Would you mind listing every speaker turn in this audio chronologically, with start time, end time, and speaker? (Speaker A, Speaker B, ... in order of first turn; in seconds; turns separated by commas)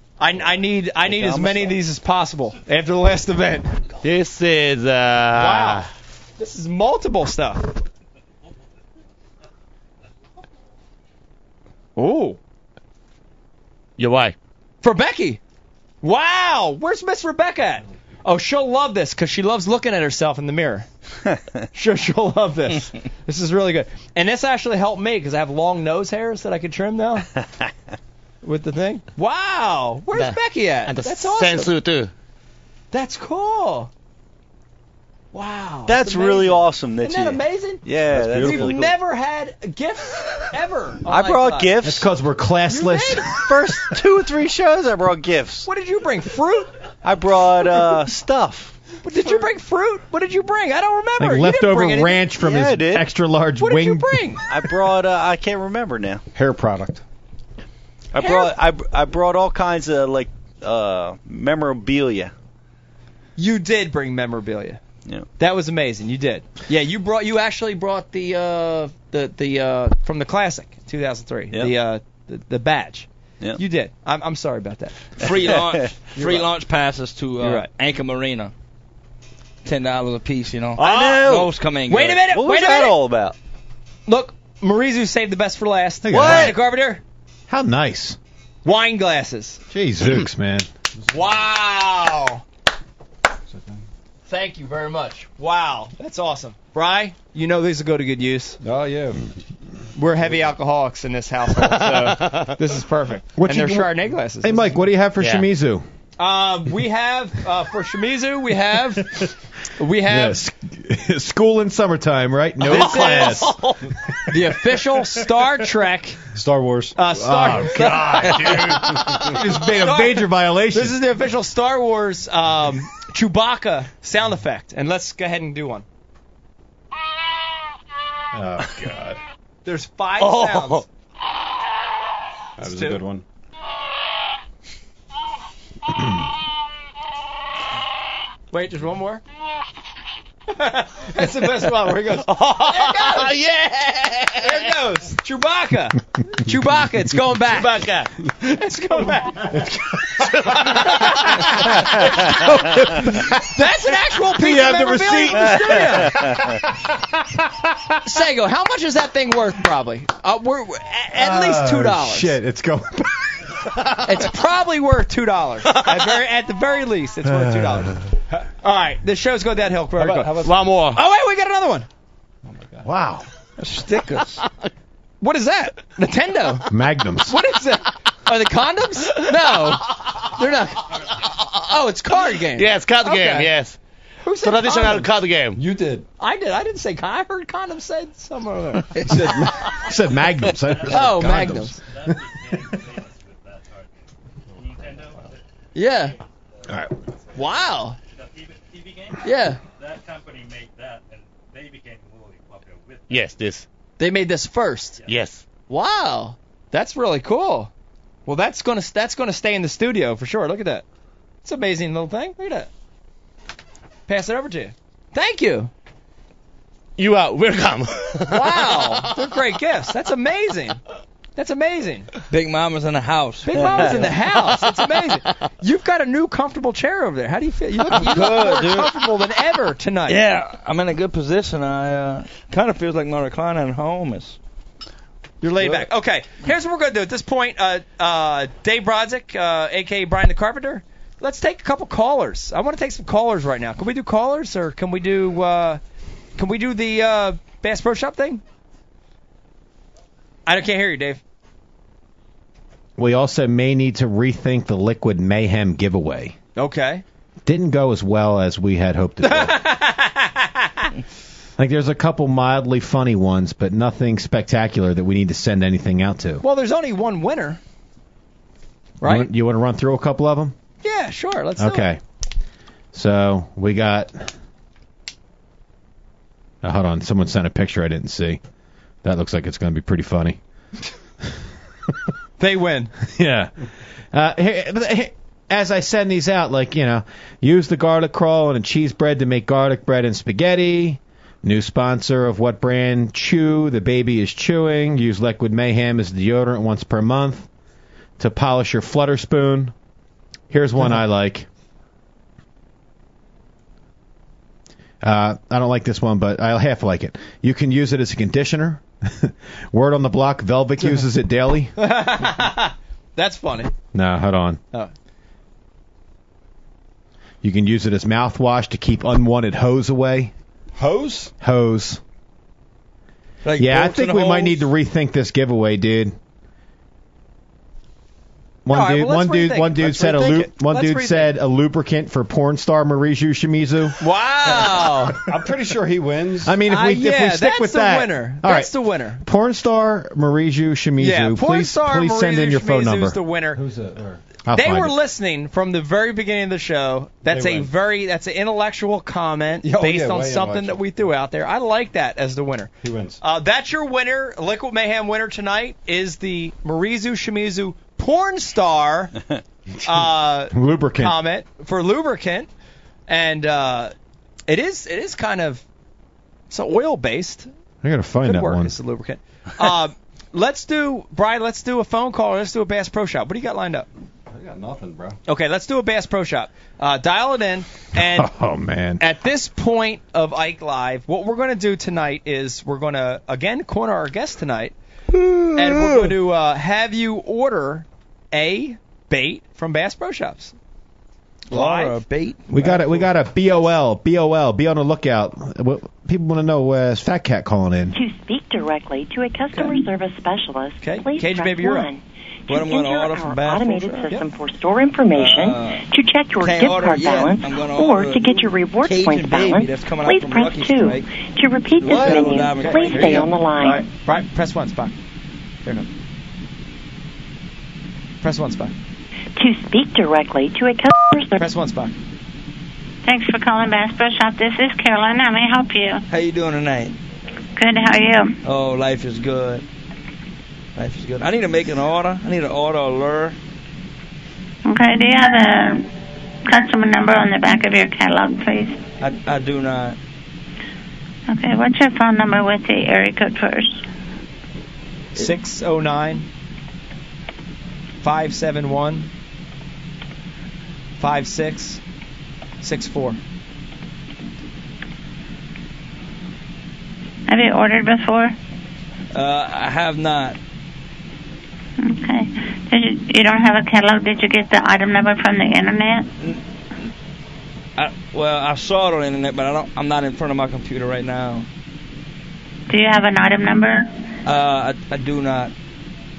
Speaker A: 0.2-3.8, Speaker B: 1.0-1.8, Speaker C: 4.0-5.9, Speaker A: 5.3-5.8, Speaker A: 6.4-7.7, Speaker A: 11.9-12.4, Speaker C: 14.0-14.3, Speaker A: 14.8-15.4, Speaker A: 16.0-20.9, Speaker A: 21.7-27.3, Speaker A: 28.4-31.7, Speaker C: 30.1-32.1, Speaker A: 32.9-33.9, Speaker A: 35.3-41.7, Speaker B: 35.9-38.9, Speaker D: 38.0-38.9, Speaker B: 41.0-42.1, Speaker E: 41.8-43.3, Speaker A: 42.7-43.8, Speaker B: 43.3-45.7, Speaker A: 45.6-46.7, Speaker B: 47.0-48.7, Speaker A: 47.7-48.0, Speaker A: 49.0-52.2, Speaker E: 51.2-54.4, Speaker B: 52.4-53.1, Speaker A: 53.6-54.5, Speaker B: 54.5-56.2, Speaker D: 56.3-57.0, Speaker B: 58.1-62.3, Speaker A: 58.2-58.5, Speaker A: 63.4-64.8, Speaker A: 65.4-74.9, Speaker F: 75.2-78.5, Speaker B: 75.2-76.2, Speaker A: 77.4-77.7, Speaker F: 79.6-82.2, Speaker A: 80.8-83.0, Speaker B: 80.8-81.5, Speaker B: 82.2-83.3, Speaker A: 84.0-87.0, Speaker E: 86.0-86.5, Speaker B: 86.1-86.5, Speaker E: 87.5-88.2, Speaker A: 88.6-89.6, Speaker E: 89.7-90.7, Speaker A: 91.1-92.4, Speaker D: 93.5-93.8, Speaker A: 94.3-98.6, Speaker D: 98.6-99.3, Speaker A: 99.9-104.8, Speaker C: 101.6-102.5, Speaker E: 103.4-105.8, Speaker C: 105.2-105.5, Speaker A: 106.2-110.4, Speaker E: 110.1-113.5, Speaker A: 112.6-113.5, Speaker C: 112.7-113.8, Speaker A: 114.3-116.2, Speaker D: 116.3-117.9, Speaker A: 117.0-125.8, Speaker E: 117.1-121.0, Speaker C: 118.4-118.8, Speaker D: 118.6-119.3, Speaker E: 128.3-129.1, Speaker D: 128.6-129.1, Speaker A: 129.6-130.8, Speaker C: 130.2-130.8, Speaker D: 132.6-133.2, Speaker A: 132.6-133.0, Speaker A: 138.5-139.2, Speaker A: 140.5-143.4, Speaker C: 142.2-144.7, Speaker A: 144.4-147.8, Speaker C: 147.5-148.1, Speaker A: 148.4-149.7, Speaker C: 150.3-151.2, Speaker A: 150.5-156.4, Speaker E: 154.4-156.4, Speaker A: 158.0-162.3, Speaker E: 161.1-163.5, Speaker A: 164.0-168.0, Speaker A: 168.6-171.9, Speaker D: 170.0-170.6, Speaker C: 170.4-171.0, Speaker D: 172.5-172.8, Speaker E: 172.8-173.2, Speaker F: 173.6-174.4, Speaker A: 175.2-176.7, Speaker E: 176.7-177.4, Speaker A: 177.3-181.0, Speaker A: 181.7-183.5, Speaker C: 182.4-183.8, Speaker A: 184.2-185.1, Speaker C: 184.4-185.6, Speaker D: 185.6-186.1, Speaker A: 186.2-189.1, Speaker D: 189.0-189.7, Speaker E: 189.1-192.1, Speaker A: 190.9-191.8, Speaker G: 191.9-193.9, Speaker G: 194.5-196.2, Speaker A: 195.7-196.1, Speaker E: 196.7-196.9, Speaker A: 197.3-198.0, Speaker G: 198.1-203.2, Speaker A: 199.2-199.6, Speaker C: 203.1-203.7, Speaker A: 204.0-205.0, Speaker C: 205.0-205.4, Speaker A: 205.7-207.7, Speaker A: 208.2-210.8, Speaker A: 211.4-212.7, Speaker A: 214.1-215.7, Speaker C: 217.0-219.0, Speaker A: 218.3-220.8, Speaker A: 221.3-222.1, Speaker F: 222.3-224.1, Speaker A: 223.4-230.2, Speaker F: 227.9-228.8, Speaker B: 228.2-228.7, Speaker F: 230.1-234.4, Speaker A: 235.4-245.8, Speaker A: 246.3-248.4, Speaker A: 250.4-251.2, Speaker E: 253.0-256.4, Speaker A: 256.6-257.0, Speaker E: 257.4-259.6, Speaker A: 259.2-260.9, Speaker E: 261.6-266.4, Speaker A: 266.4-267.6, Speaker A: 269.0-269.3, Speaker E: 269.0-270.5, Speaker A: 270.8-271.9, Speaker E: 271.6-272.0, Speaker E: 272.9-274.3, Speaker E: 276.6-278.4, Speaker E: 279.0-280.4, Speaker A: 282.4-282.9, Speaker E: 283.1-283.5, Speaker E: 284.1-297.5, Speaker E: 298.2-299.7, Speaker E: 300.5-301.5, Speaker E: 305.0-311.7, Speaker A: 311.8-313.7, Speaker E: 313.9-314.6, Speaker E: 317.4-320.3, Speaker D: 320.8-321.3, Speaker E: 321.4-322.0, Speaker F: 323.4-324.7, Speaker E: 323.6-326.1, Speaker E: 328.6-334.0, Speaker A: 328.7-331.3, Speaker A: 334.0-335.2, Speaker D: 335.1-336.6, Speaker E: 336.4-343.2, Speaker A: 336.6-339.2, Speaker A: 341.0-343.6, Speaker D: 343.6-344.2, Speaker E: 344.4-344.9, Speaker A: 344.5-359.1, Speaker D: 347.3-347.7, Speaker D: 349.6-350.8, Speaker D: 352.8-353.2, Speaker A: 359.8-362.5, Speaker E: 360.5-361.2, Speaker A: 363.1-363.9, Speaker A: 364.5-365.6, Speaker A: 366.5-367.5, Speaker E: 367.8-368.8, Speaker A: 368.2-373.9, Speaker D: 374.3-375.2, Speaker A: 375.2-378.3, Speaker E: 377.9-379.0, Speaker A: 379.0-384.7, Speaker A: 385.5-390.5, Speaker A: 391.5-392.0, Speaker F: 391.5-393.1, Speaker E: 392.5-397.9, Speaker H: 397.9-413.9, Speaker A: 399.5-399.8, Speaker A: 400.8-401.9, Speaker F: 402.5-404.1, Speaker F: 405.1-405.8, Speaker F: 406.4-411.1, Speaker F: 411.8-413.3, Speaker B: 411.9-412.2, Speaker A: 412.6-414.9, Speaker A: 418.2-418.7, Speaker H: 419.4-421.4, Speaker A: 421.4-421.9, Speaker I: 423.0-426.0, Speaker F: 426.1-426.9, Speaker I: 427.6-428.3, Speaker F: 428.4-429.6, Speaker F: 430.8-433.4, Speaker I: 434.6-435.9, Speaker I: 436.5-438.8, Speaker F: 439.0-440.0, Speaker I: 441.3-443.8, Speaker A: 445.1-446.2, Speaker A: 448.0-449.1, Speaker A: 451.0-451.8, Speaker A: 452.6-453.2, Speaker I: 457.3-458.3, Speaker F: 459.1-460.4, Speaker I: 461.8-466.1, Speaker F: 467.8-471.5, Speaker I: 472.7-473.9, Speaker F: 474.2-475.5